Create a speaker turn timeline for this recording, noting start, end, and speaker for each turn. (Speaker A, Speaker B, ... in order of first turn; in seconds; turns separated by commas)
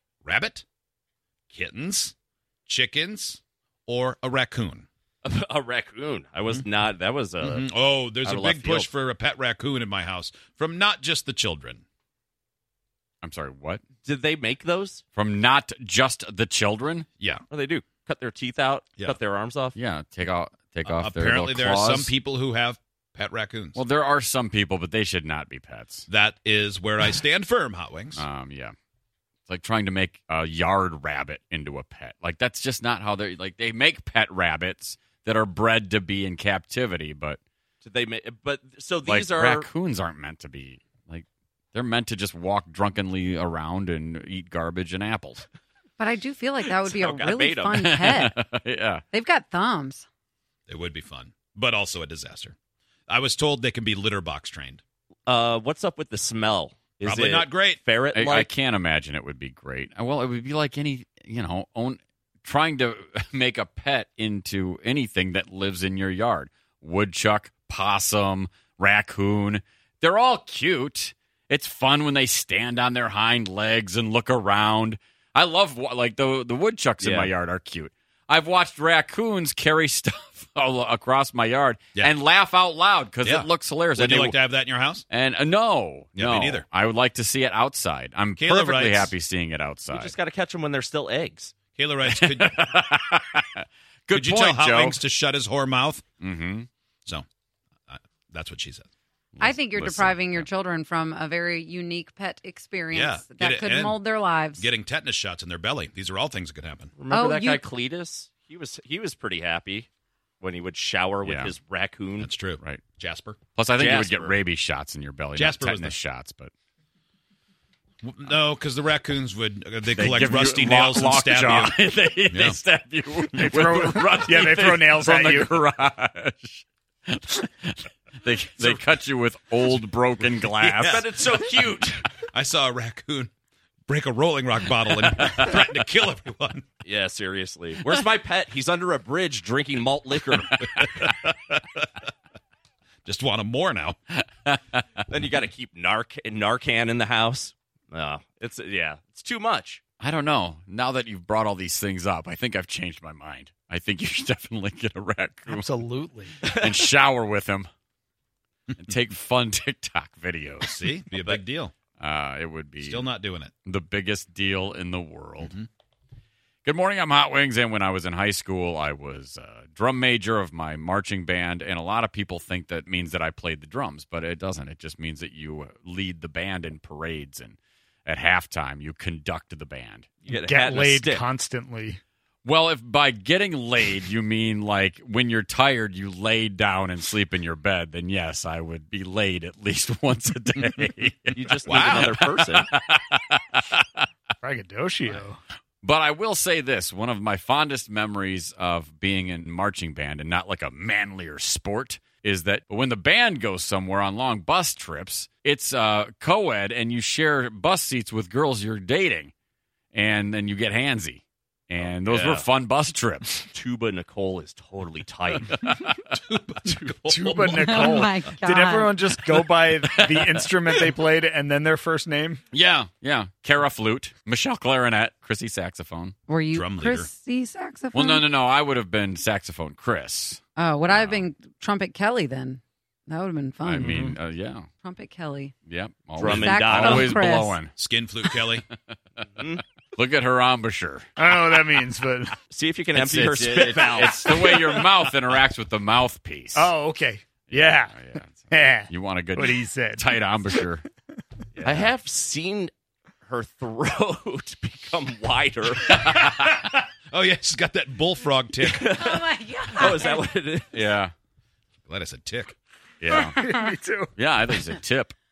Speaker A: 0.2-0.6, Speaker A: 1.5-2.1, Speaker A: 2.7-4.9, Speaker B: 5.2-7.7, Speaker A: 7.4-11.8, Speaker B: 8.2-8.9, Speaker C: 13.2-13.8, Speaker B: 14.0-15.0, Speaker C: 15.1-17.1, Speaker B: 17.5-19.8, Speaker C: 19.7-22.1, Speaker A: 20.9-23.8, Speaker C: 23.7-26.1, Speaker A: 26.1-28.2, Speaker C: 28.1-28.7, Speaker C: 29.5-37.4, Speaker B: 37.8-39.7, Speaker C: 39.0-45.5, Speaker D: 46.0-48.4, Speaker B: 46.7-47.8, Speaker C: 47.8-49.0, Speaker D: 49.1-50.0, Speaker A: 50.7-52.5, Speaker A: 53.1-54.8, Speaker B: 55.3-58.5, Speaker A: 57.0-57.8, Speaker C: 58.1-84.4, Speaker B: 77.0-77.3, Speaker A: 83.2-85.0, Speaker C: 85.1-90.1, Speaker A: 86.2-86.6, Speaker A: 88.4-89.1, Speaker B: 89.9-91.5, Speaker A: 91.7-92.7, Speaker C: 92.1-95.0, Speaker A: 94.1-96.0, Speaker C: 96.2-96.7, Speaker A: 97.9-98.9, Speaker C: 99.3-100.5, Speaker D: 99.4-104.7, Speaker A: 102.9-104.0, Speaker A: 104.5-107.0, Speaker B: 107.0-109.9, Speaker D: 107.1-107.6, Speaker B: 110.4-112.3, Speaker C: 111.2-111.5, Speaker A: 112.2-113.4, Speaker C: 113.5-116.5, Speaker B: 113.8-114.4, Speaker A: 115.3-116.0, Speaker A: 118.0-121.7, Speaker C: 119.9-131.1, Speaker A: 122.3-122.6, Speaker E: 123.4-125.5, Speaker B: 130.5-132.1, Speaker A: 132.2-133.3, Speaker A: 133.9-136.6, Speaker B: 136.8-140.9, Speaker A: 141.0-141.6, Speaker A: 143.0-144.0, Speaker C: 144.2-144.8, Speaker B: 145.1-149.8, Speaker C: 150.0-155.8, Speaker E: 155.5-156.3, Speaker B: 156.4-156.7, Speaker C: 156.4-157.7, Speaker C: 158.8-161.4, Speaker A: 160.6-161.7, Speaker C: 162.0-163.1, Speaker A: 162.8-163.5, Speaker C: 163.6-165.5, Speaker C: 166.6-180.1, Speaker B: 180.2-181.2, Speaker E: 180.4-182.0, Speaker C: 182.4-193.6, Speaker B: 191.3-192.7, Speaker A: 191.7-192.0, Speaker E: 194.4-195.4, Speaker C: 195.8-209.3, Speaker C: 209.9-213.5, Speaker B: 211.8-212.5, Speaker B: 213.5-215.6, Speaker C: 215.5-216.0, Speaker A: 216.1-218.1, Speaker E: 217.0-222.4, Speaker D: 217.7-218.9, Speaker C: 219.2-220.8, Speaker C: 222.5-226.1, Speaker D: 226.3-228.3, Speaker A: 226.5-227.1, Speaker C: 227.9-231.2, Speaker D: 230.6-234.0, Speaker C: 233.6-234.7, Speaker D: 234.8-235.5, Speaker C: 235.7-237.7, Speaker B: 236.2-237.2, Speaker D: 236.2-237.6, Speaker A: 237.7-238.6, Speaker B: 239.4-239.6, Speaker C: 239.9-241.7, Speaker E: 241.2-242.3, Speaker B: 242.5-244.6, Speaker C: 242.9-246.7, Speaker E: 246.5-247.9, Speaker C: 247.5-250.8, Speaker E: 248.5-250.6, Speaker B: 251.6-252.7, Speaker C: 251.6-251.9, Speaker B: 253.2-256.0, Speaker A: 255.8-258.9, Speaker B: 258.6-260.8, Speaker D: 258.9-260.3, Speaker C: 260.7-261.1, Speaker A: 261.9-262.5, Speaker C: 263.0-263.5, Speaker E: 263.4-264.0, Speaker C: 264.1-265.1